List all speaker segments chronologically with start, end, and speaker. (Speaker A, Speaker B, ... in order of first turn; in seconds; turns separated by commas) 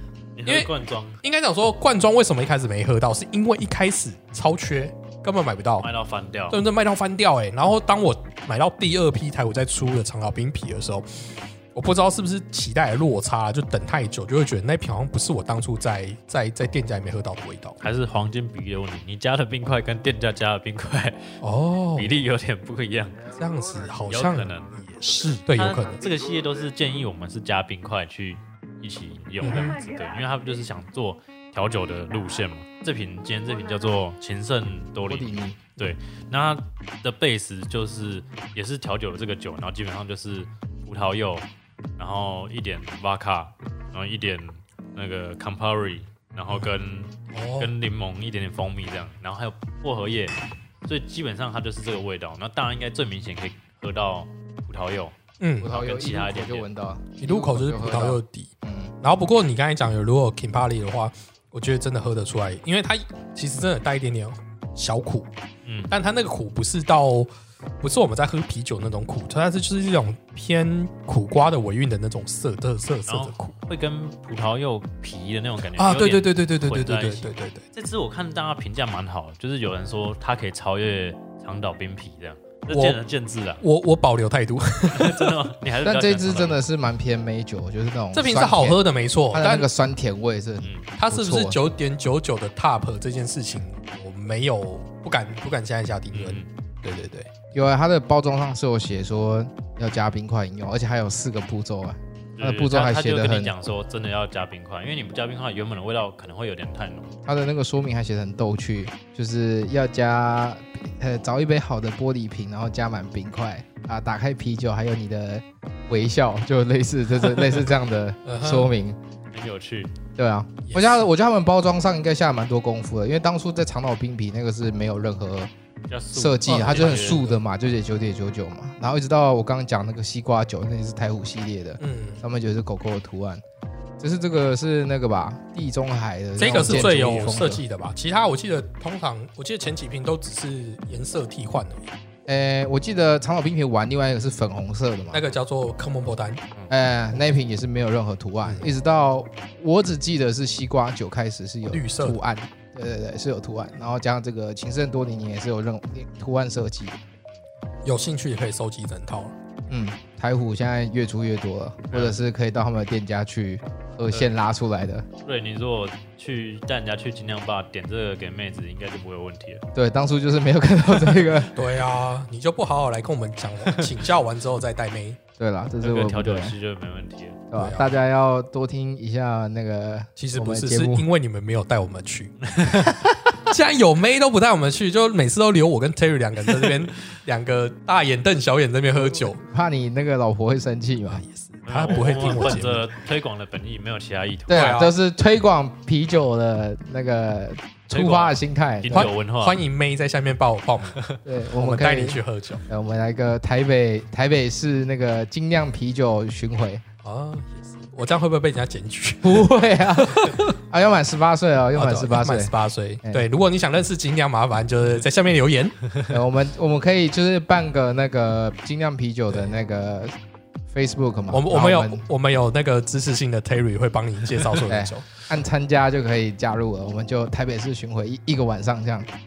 Speaker A: 0.3-1.2, Speaker B: 0.5-5.9, Speaker A: 5.8-6.6, Speaker B: 6.5-17.8, Speaker A: 17.8-21.3, Speaker B: 21.4-22.1, Speaker A: 21.9-23.2, Speaker B: 23.3-26.0, Speaker A: 24.1-41.5, Speaker B: 29.4-29.8, Speaker C: 35.0-35.7, Speaker A: 42.0-56.7, Speaker B: 47.3-47.7, Speaker B: 55.4-55.7, Speaker C: 55.6-58.9, Speaker B: 57.2-65.3, Speaker A: 65.6-65.9, Speaker B: 65.9-67.3, Speaker B: 67.8-73.5, Speaker A: 73.1-83.6, Speaker B: 75.8-77.6, Speaker B: 82.7-83.0, Speaker B: 83.6-85.3, Speaker A: 84.9-86.6, Speaker C: 85.8-88.8, Speaker B: 88.1-89.7, Speaker C: 89.3-91.6, Speaker B: 91.0-97.4, Speaker A: 96.1-96.5, Speaker C: 97.5-103.5, Speaker A: 102.4-107.1, Speaker C: 107.2-119.0, Speaker B: 118.2-118.7, Speaker A: 119.3-119.9, Speaker C: 120.2-125.5, Speaker B: 120.6-121.1, Speaker A: 125.9-127.3, Speaker C: 126.1-133.4, Speaker B: 126.4-127.4, Speaker B: 131.8-132.2, Speaker C: 134.0-137.6, Speaker B: 136.4-141.9, Speaker A: 136.4-137.3, Speaker C: 142.3-145.2, Speaker B: 145.1-146.4, Speaker C: 146.7-157.0, Speaker B: 148.4-148.7, Speaker B: 151.7-152.2, Speaker B: 157.8-159.3, Speaker C: 159.7-165.1, Speaker A: 165.2-169.6, Speaker C: 169.7-171.5, Speaker B: 171.5-175.2, Speaker C: 175.4-176.5, Speaker A: 175.8-177.4, Speaker C: 177.5-181.0, Speaker B: 177.6-177.9, Speaker B: 180.2-182.4, Speaker A: 182.4-183.0, Speaker B: 183.4-189.4, Speaker C: 188.9-191.2, Speaker B: 191.1-192.9, Speaker A: 191.7-194.7, Speaker B: 194.5-194.9, Speaker C: 194.5-199.1, Speaker A: 197.9-199.6, Speaker B: 198.9-201.0, Speaker A: 200.9-201.2, Speaker C: 201.2-206.8, Speaker B: 201.6-202.6, Speaker B: 207.0-210.5, Speaker C: 209.2-213.2, Speaker B: 211.7-215.8, Speaker C: 216.1-220.1, Speaker C: 220.7-222.0, Speaker B: 221.3-225.1, Speaker C: 224.7-229.1